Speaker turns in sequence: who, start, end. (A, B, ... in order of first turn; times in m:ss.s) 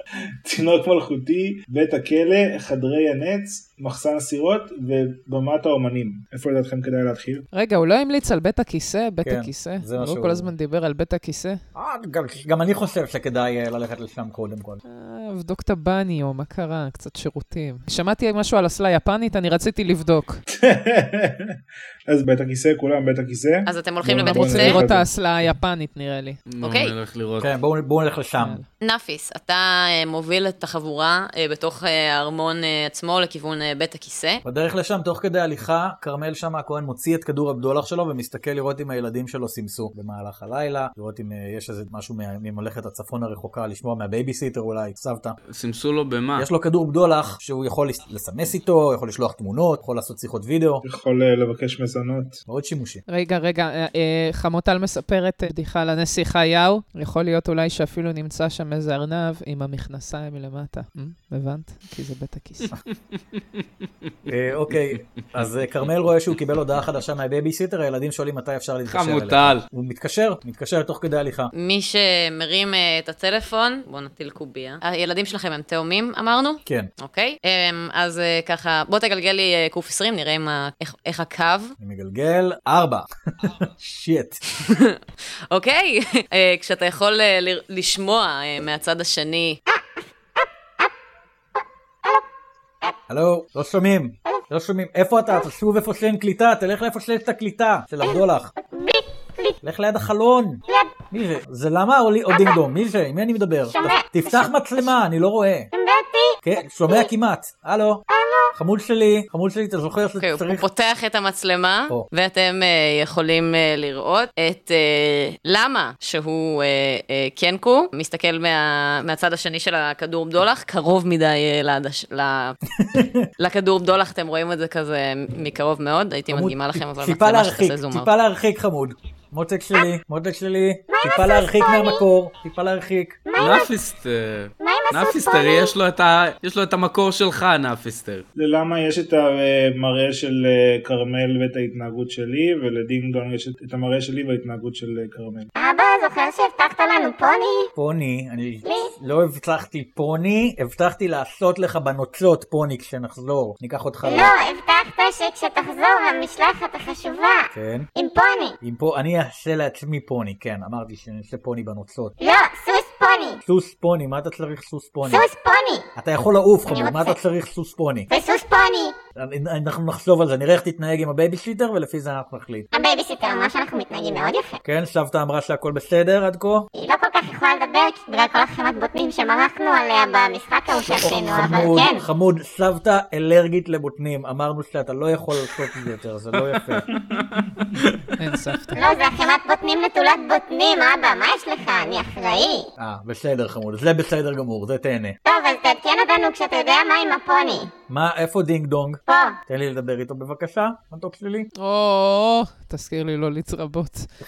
0:00.4-0:07.5 A
0:07.5-0:11.6 B
0:09.2-0:10.5 C
0:11.7-0:14.8 C
0:14.8-0:20.4 B
0:20.5-0:21.5 A
0:22.1-0:25.1 A
0:23.6-0:24.8 D
0:24.2-0:26.4 B
0:26.5-0:27.5 E
0:26.6-0:26.9 D
0:27.4-0:28.6 C
0:28.4-0:28.6 B
0:28.8-0:34.4 D
0:34.4-0:45.4 C
0:45.5-0:46.5 E
0:46.3-0:50.8 C
0:50.8-0:52.4 A
0:52.5-0:53.0 C
0:53.1-1:02.7 B
1:03.1-1:03.6 E
1:04.3-1:11.5 C
1:08.9-1:09.6 E
1:11.5-1:21.8 D
1:16.6-1:16.9 C
1:21.8-1:24.4 C
1:24.6-1:29.6 D
1:33.1-1:38.5 C
1:38.0-1:39.6 F
1:39.6-1:45.7 C
1:40.7-1:41.0 F
1:42.3-1:42.6 F
1:43.7-1:44.8 F
1:45.7-1:46.4 F
1:46.4-1:50.6 C
1:48.1-1:48.5 F
1:50.2-2:02.6 D
2:02.8-2:03.3 C
2:03.4-2:08.1 D
2:06.3-2:13.2 C
2:10.9-2:12.0 F
2:13.3-2:13.7 F
2:13.4-2:18.2 E
2:14.6-2:15.7 F
2:18.4-2:25.5 A
2:25.6-2:27.7 F
2:27.8-2:34.3 C
2:28.6-2:28.9 F
2:34.0-2:38.5 F
2:37.5-2:37.9 C
2:38.6-2:42.1 C
2:42.2-2:43.4 F
2:43.4-2:45.2 C
2:45.0-2:45.9 F
2:46.0-2:48.1 C
2:46.7-2:47.2 F
2:48.1-2:48.9 F
2:49.2-2:52.7 C
2:52.7-2:54.6 F
2:54.6-2:56.7 C
2:56.8-3:02.0 F
3:00.9-3:06.8 C
3:06.4-3:08.0 E
3:08.2-3:08.8 B
3:08.7-3:12.7 F
3:12.8-3:15.2 C
3:15.2-3:17.7 F
3:17.9-3:21.5 C
3:19.1-3:19.4 F
3:21.6-3:24.1 B